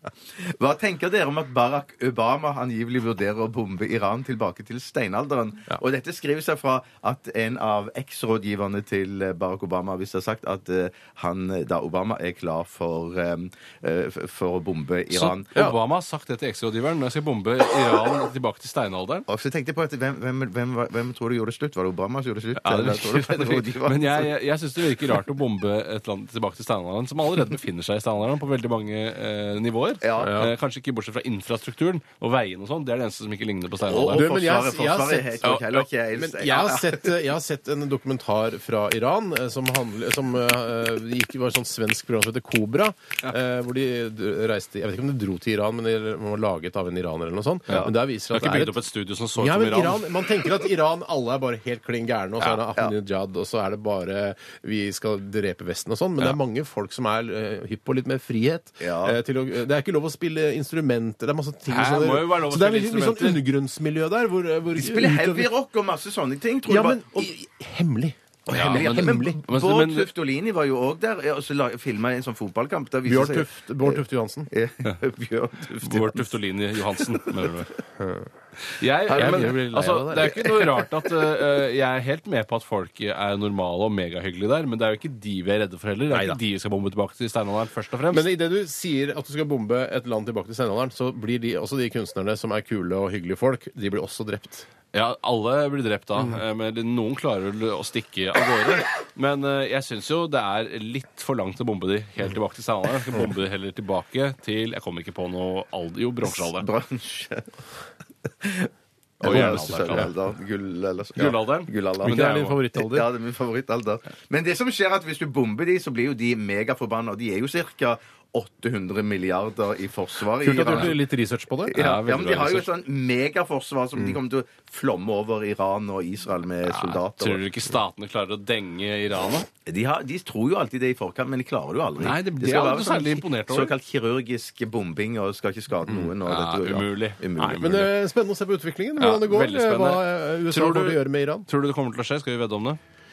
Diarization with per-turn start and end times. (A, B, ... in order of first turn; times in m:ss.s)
0:00.4-0:15.5 A
0:15.1-0:19.2 B
0:19.3-0:24.3 A
0:22.6-0:34.3 B
0:30.0-0:30.4 A
0:30.2-0:30.5 C
0:33.9-0:37.1 A
0:34.1-0:35.6 C
0:35.4-0:35.8 B
0:36.2-0:48.8 C
0:47.7-0:50.0 B
0:49.4-1:05.5 C
0:58.8-0:59.2 A
1:01.7-1:03.4 B
1:04.8-1:07.3 A
1:06.7-1:09.4 C
1:08.5-1:10.1 B
1:08.5-1:16.2 A
1:13.0-1:14.5 C
1:15.7-1:17.7 B
1:18.8-1:28.3 B
1:19.1-1:20.7 C
1:26.1-1:26.4 C
1:28.1-1:34.7 C
1:34.9-1:46.7 B
1:46.4-1:47.5 A
1:48.4-1:48.7 A
1:49.2-2:01.0 A
1:49.2-1:50.1 C
1:49.2-1:50.1 B
1:51.2-1:52.6 B
1:52.0-1:53.1 C
2:00.4-2:01.8 C
2:01.7-2:07.4 A
2:01.7-2:02.7 B
2:06.7-2:09.5 B
2:09.7-2:17.8 A
2:12.0-2:13.7 B
2:16.2-2:17.9 B
2:17.6-2:21.5 C
2:19.0-2:22.8 B